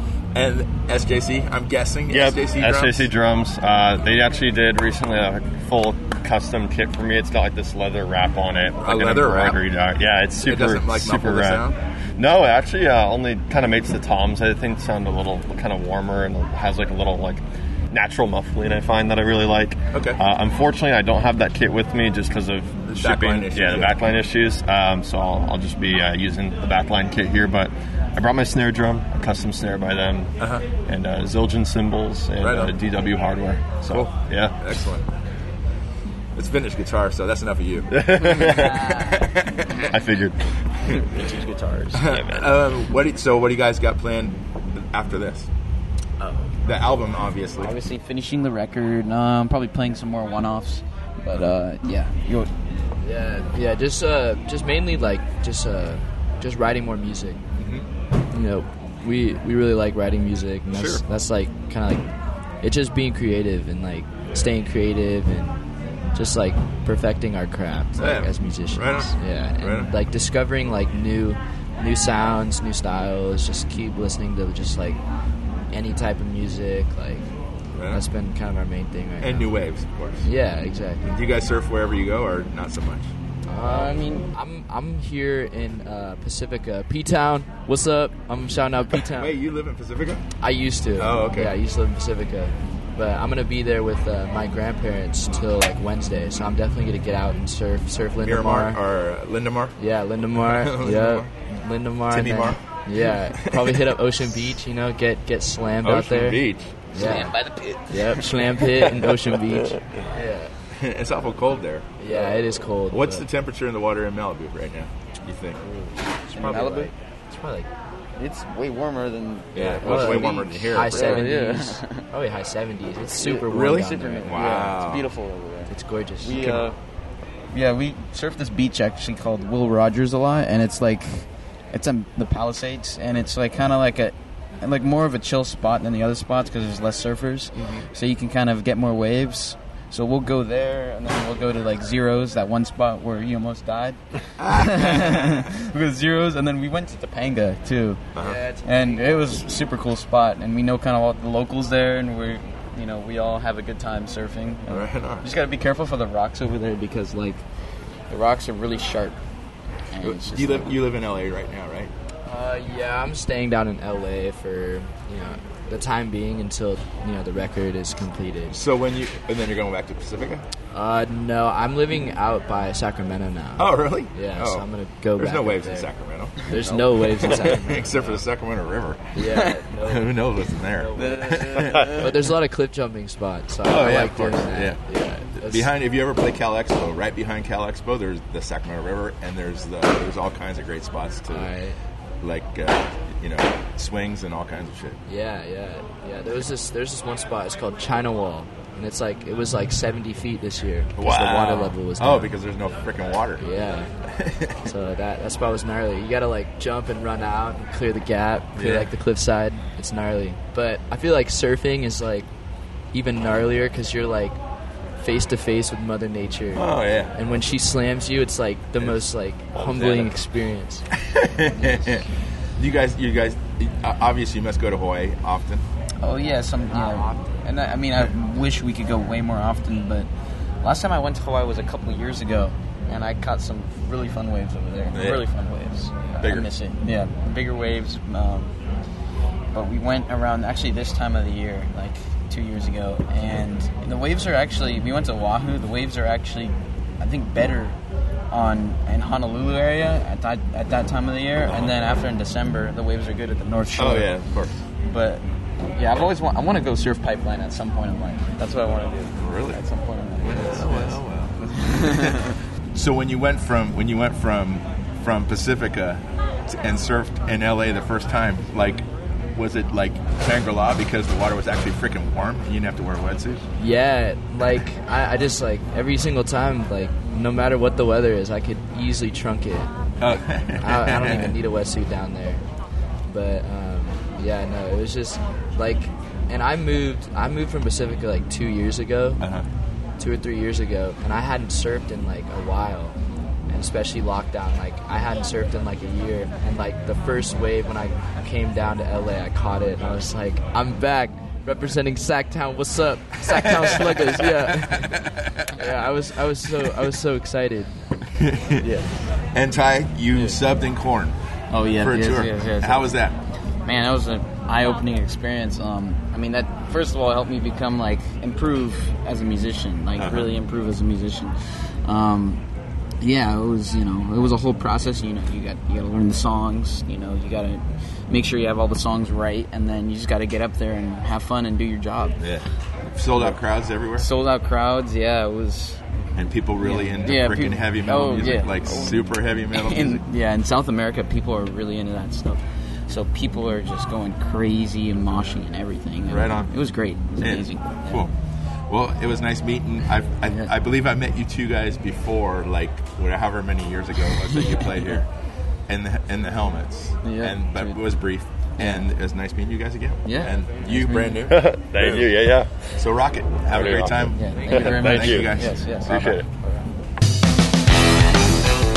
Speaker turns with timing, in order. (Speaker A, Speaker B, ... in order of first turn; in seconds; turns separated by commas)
Speaker A: 0.3-3.1, Speaker B: 2.1-11.7, Speaker A: 8.8-9.6, Speaker A: 10.4-11.8, Speaker B: 12.2-34.6, Speaker A: 19.9-20.2, Speaker A: 22.9-24.0, Speaker A: 32.4-32.7, Speaker A: 33.9-35.0, Speaker A: 36.3-39.9, Speaker B: 37.9-39.1, Speaker C: 38.6-39.1, Speaker B: 39.7-42.5, Speaker A: 41.9-45.5, Speaker A: 46.6-47.8, Speaker C: 47.6-52.5, Speaker D: 53.0-57.4, Speaker A: 57.6-57.9, Speaker D: 58.3-62.0, Speaker A: 60.7-61.0, Speaker D: 62.6-65.6, Speaker D: 66.1-75.0, Speaker A: 68.0-69.9, Speaker D: 75.7-77.3, Speaker A: 77.8-78.0, Speaker D: 77.9-79.5, Speaker A: 79.2-80.3, Speaker D: 80.2-81.1, Speaker A: 81.0-83.1, Speaker D: 83.5-89.3, Speaker C: 83.6-84.3, Speaker A: 89.1-90.2, Speaker D: 90.4-98.8, Speaker A: 91.0-91.5, Speaker A: 98.2-99.8, Speaker D: 99.8-106.4, Speaker A: 100.4-101.3, Speaker A: 102.1-102.6, Speaker A: 103.3-103.9, Speaker A: 105.8-107.2, Speaker D: 106.9-107.3, Speaker C: 107.0-108.3, Speaker D: 107.9-110.5, Speaker A: 110.7-111.9, Speaker D: 112.0-113.3, Speaker C: 112.1-112.4, Speaker A: 112.9-115.6, Speaker D: 115.7-117.7, Speaker C: 116.3-116.9, Speaker C: 118.2-122.0, Speaker A: 119.5-121.3, Speaker D: 119.6-124.6, Speaker C: 123.2-126.8, Speaker A: 123.4-125.1, Speaker D: 125.7-126.6, Speaker C: 127.5-148.0, Speaker A: 144.5-144.8, Speaker A: 148.1-148.4, Speaker D: 148.2-149.4, Speaker C: 148.6-157.4, Speaker A: 154.7-155.3, Speaker C: 158.1-159.2, Speaker C: 159.9-160.8, Speaker A: 160.0-161.9, Speaker D: 162.2-168.6, Speaker A: 168.5-170.4, Speaker D: 170.7-175.9, Speaker A: 173.6-174.7, Speaker A: 175.2-179.2, Speaker D: 176.4-178.2, Speaker D: 179.1-180.2, Speaker C: 179.3-179.7, Speaker A: 179.8-182.0, Speaker D: 180.7-185.7, Speaker C: 180.9-182.1, Speaker A: 183.6-184.8, Speaker A: 185.4-191.5, Speaker D: 191.3-191.8, Speaker A: 192.2-195.0, Speaker D: 195.1-202.3, Speaker A: 201.0-203.4, Speaker D: 203.4-203.9, Speaker A: 204.1-204.7, Speaker D: 204.6-212.3, Speaker A: 208.6-208.9, Speaker D: 212.9-214.4, Speaker D: 215.0-220.8, Speaker A: 216.6-217.1, Speaker B: 219.6-220.0, Speaker A: 221.0-222.0, Speaker D: 221.5-222.0, Speaker A: 222.6-225.6, Speaker C: 226.0-230.1, Speaker D: 226.7-227.4, Speaker C: 230.6-238.5, Speaker A: 234.9-235.2, Speaker A: 236.2-236.5, Speaker C: 239.5-247.8, Speaker C: 248.3-254.1, Speaker A: 253.7-254.6, Speaker C: 254.8-255.2, Speaker C: 255.8-262.4, Speaker A: 259.2-259.6, Speaker A: 260.2-273.4, Speaker D: 273.6-279.7, Speaker A: 280.0-281.3, Speaker D: 280.6-282.4, Speaker D: 283.1-289.2, Speaker A: 289.2-289.4, Speaker D: 290.0-293.0, Speaker D: 293.5-307.7, Speaker A: 303.5-305.0, Speaker A: 308.2-308.6, Speaker C: 308.6-308.9, Speaker A: 309.3-311.1, Speaker C: 310.1-310.4, Speaker C: 311.5-312.9, Speaker A: 311.8-313.1, Speaker C: 313.6-322.4, Speaker A: 320.0-320.3, Speaker C: 323.0-332.2, Speaker A: 332.2-334.1, Speaker C: 334.0-335.8, Speaker A: 336.1-340.0, Speaker C: 336.6-339.0, Speaker C: 339.5-348.1, Speaker A: 346.1-346.5, Speaker A: 347.2-348.1, Speaker A: 348.7-355.1, Speaker C: 350.2-350.5, Speaker A: 355.7-362.2, Speaker C: 357.0-357.9, Speaker C: 358.6-358.9, Speaker C: 360.0-361.2, Speaker B: 361.2-362.5, Speaker A: 362.8-366.2, Speaker B: 363.5-366.3, Speaker C: 364.1-366.6